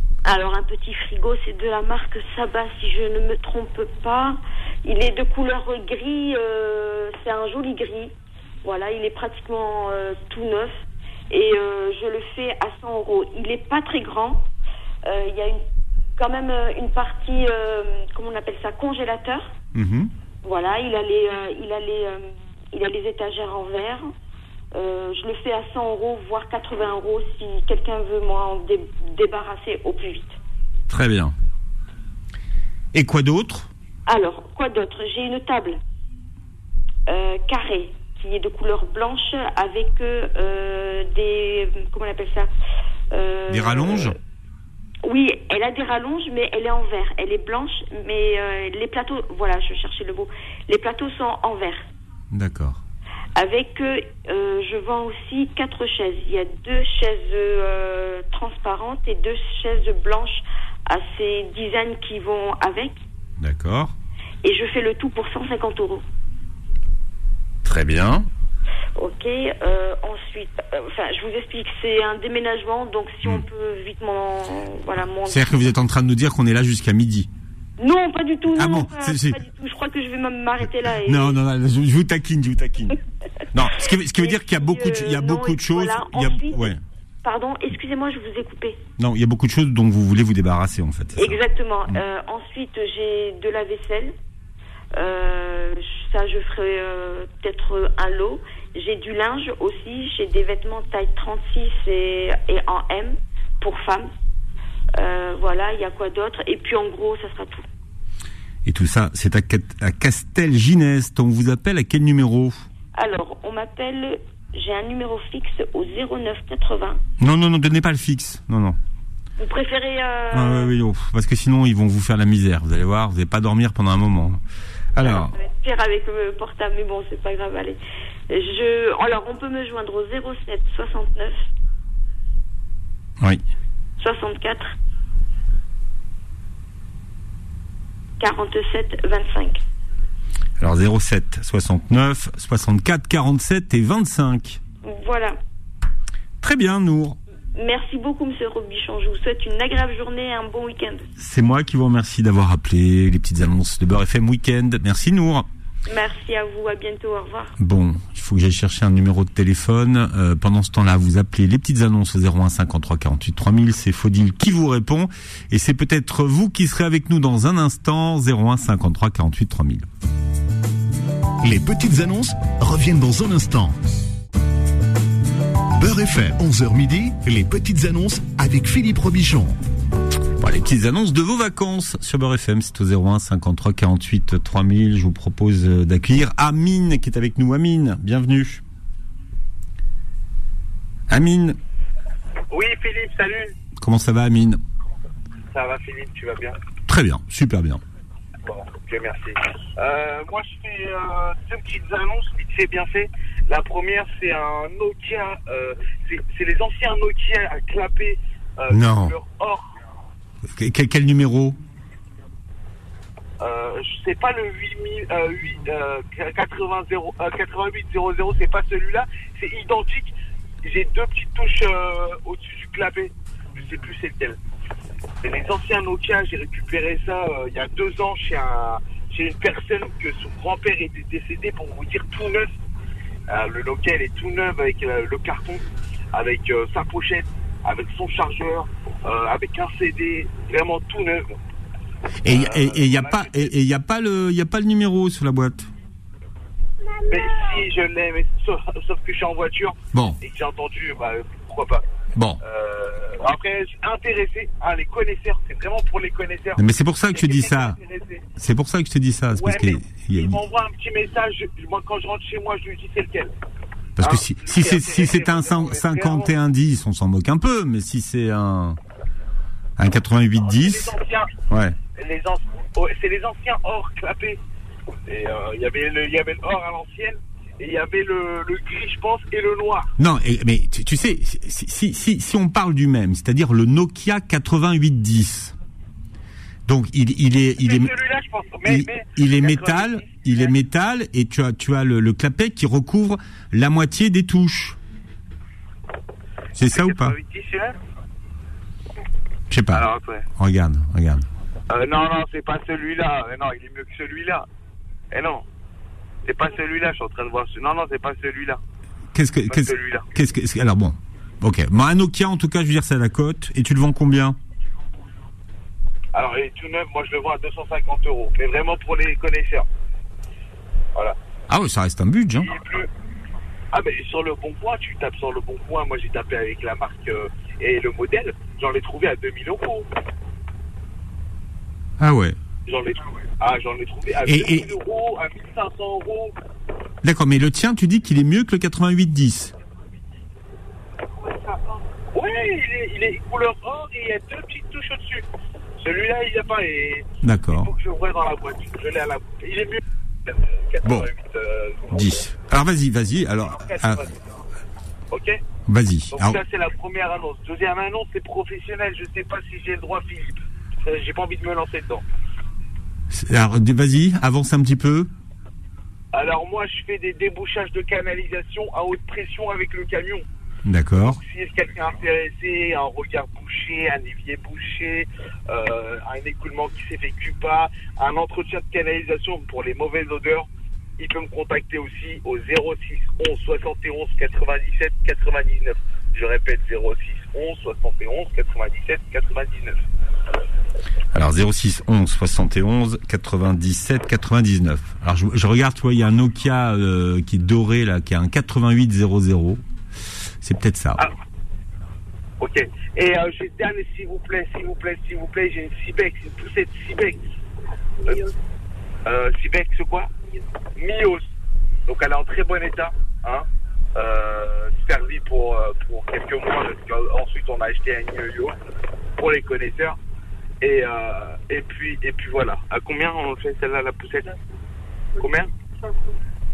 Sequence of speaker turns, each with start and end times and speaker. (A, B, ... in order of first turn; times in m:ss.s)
0:00.2-0:08.1 A
0:08.6-0:14.4 A
0:15.0-0:15.6 A
0:16.2-0:19.5 A
0:19.7-0:20.1 B
0:20.4-0:24.1 A
0:24.7-0:30.4 A
0:30.9-0:31.3 B
0:32.9-0:33.7 B
0:34.1-0:35.8 A
0:37.1-0:42.5 A
0:43.1-0:44.1 A
0:43.5-0:44.1 B
0:45.0-0:51.9 A
0:52.3-0:52.8 B
0:53.4-1:03.0 A
1:03.4-1:03.9 B
1:04.4-1:06.0 A
1:07.6-1:08.3 B
1:09.0-1:15.5 A
1:15.3-1:17.3 B
1:17.8-1:21.4 A
1:18.5-1:19.4 B
1:21.0-1:23.0 B
1:23.5-1:26.8 B
1:24.1-1:26.7 A
1:27.2-1:28.8 A
1:29.0-1:31.4 B
1:31.2-1:34.1 A
1:34.9-1:44.1 A
1:45.0-1:47.6 A
1:48.6-1:52.6 B
1:52.9-1:57.0 A
1:57.2-1:58.8 B
1:59.4-2:00.7 A
2:00.3-2:04.4 B
2:04.9-2:05.3 B
2:05.0-2:11.4 A
2:14.0-2:14.7 A
2:18.2-2:19.6 A
2:20.6-2:24.6 B
2:24.8-2:25.4 A
2:26.4-2:27.2 B
2:27.5-2:31.1 A
2:31.2-2:35.5 B
2:35.9-2:37.5 A
2:37.6-2:49.9 B
2:51.4-2:53.8 C
2:55.8-2:59.6 C
3:00.4-3:08.6 B
3:11.1-3:11.6 B
3:12.5-3:13.6 D
3:13.8-3:14.6 B
3:15.5-3:16.6 D
3:16.9-3:17.8 B
3:18.4-3:29.7 D
3:28.7-3:29.1 B
3:30.4-3:31.6 B
3:33.4-3:40.1 D
3:40.6-3:44.4 D
3:45.2-3:52.5 D
3:53.3-4:01.3 D
4:02.2-4:05.7 B
4:02.3-4:03.5 D
4:07.1-4:11.8 D
4:09.9-4:10.2 B
4:12.1-4:12.4 B
4:12.4-4:16.6 D
4:16.6-4:17.8 B
4:17.1-4:18.2 D
4:18.4-4:20.4 B
4:19.4-4:23.3 D
4:24.0-4:28.8 B
4:24.0-4:26.3 D
4:29.8-4:30.9 B
4:30.4-4:31.3 D
4:31.5-4:31.8 B
4:31.9-4:34.4 D
4:35.1-4:39.9 D
4:40.0-4:45.5 B
4:46.7-4:47.9 B
4:47.6-4:50.5 D
4:48.6-4:54.8 B
4:56.6-4:57.1 B
4:56.7-4:57.8 D
4:59.5-4:59.8 B
4:59.7-5:00.2 D
5:00.4-5:01.2 B
5:01.7-5:04.4 D
5:05.1-5:05.4 D
5:06.2-5:08.6 D
5:09.1-5:14.4 B
5:09.5-5:10.1 D
5:16.1-5:19.6 D
5:21.5-5:22.5 B
5:22.4-5:22.9 D
5:23.7-5:29.9 D
5:32.0-5:32.4 B
5:32.6-5:36.3 D
5:34.2-5:34.7 B
5:37.0-5:39.5 B
5:41.3-5:41.6 D
5:42.1-5:45.2 D
5:45.8-5:52.0 D
5:47.2-5:47.7 B
5:50.8-5:51.1 B
5:51.9-5:54.1 B
5:53.5-5:54.1 D
5:55.1-5:55.4 D
5:55.7-5:56.4 B
5:56.1-6:02.0 D
6:03.1-6:05.1 B
6:06.1-6:10.2 D
6:10.6-6:11.2 B
6:11.0-6:20.5 D
6:21.0-6:29.8 D
6:31.1-6:39.6 B
6:40.4-6:41.0 B
6:42.4-6:47.2 D
6:48.0-6:48.3 D
6:49.0-6:50.1 D
6:50.8-6:51.2 D
6:51.9-6:58.5 D
6:59.2-7:00.0 D
7:00.6-7:04.4 D
7:05.2-7:05.5 D